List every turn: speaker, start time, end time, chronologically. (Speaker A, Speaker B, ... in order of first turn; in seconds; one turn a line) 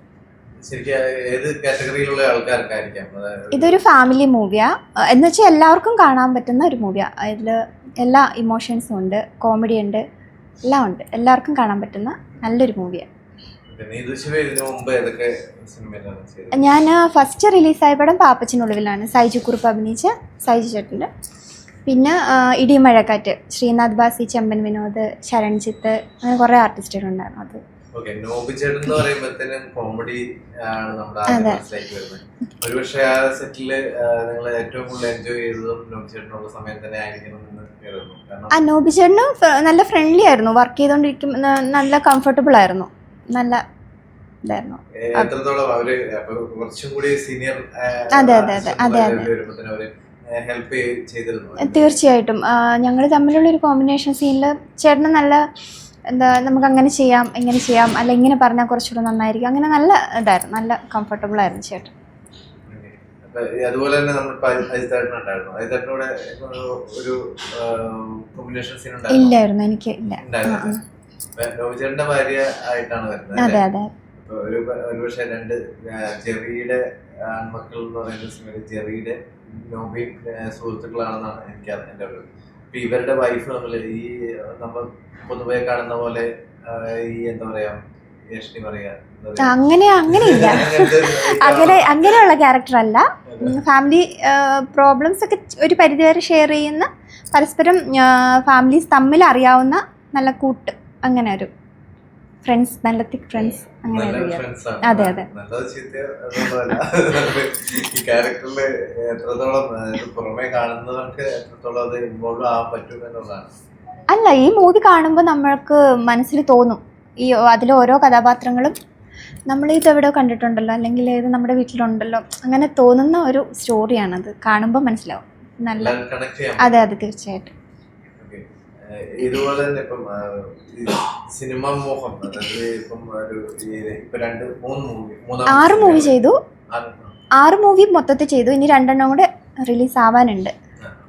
Speaker A: 0.6-3.8
Speaker B: 3.5-10.0
Speaker B: 10.7-13.1
Speaker A: 13.7-16.7
Speaker B: 16.5-21.1
Speaker B: 21.9-27.6
Speaker A: 27.9-38.5
Speaker B: 31.3-31.6
Speaker B: 38.5-43.6
Speaker B: 44.5-45.3
Speaker A: 45.1-52.0
Speaker B: 48.1-49.3
Speaker B: 51.6-55.4
Speaker B: 56.1-61.9
Speaker A: 62.7-69.4
Speaker B: 69.1-70.8
Speaker A: 70.2-70.8
Speaker A: 71.3-73.6
Speaker B: 73.4-73.9
Speaker A: 74.2-87.8
Speaker A: 88.3-89.5
Speaker B: 89.4-101.5
Speaker A: 90.1-92.2
Speaker A: 93.3-93.5
Speaker B: 102.4-105.2
Speaker A: 103.8-113.5
Speaker B: 114.1-118.7
Speaker B: 119.5-126.0
Speaker A: 125.7-126.8
Speaker B: 126.6-127.5
Speaker A: 128.2-136.1
Speaker B: 135.5-136.4
Speaker A: 136.7-137.1
Speaker B: 137.4-140.5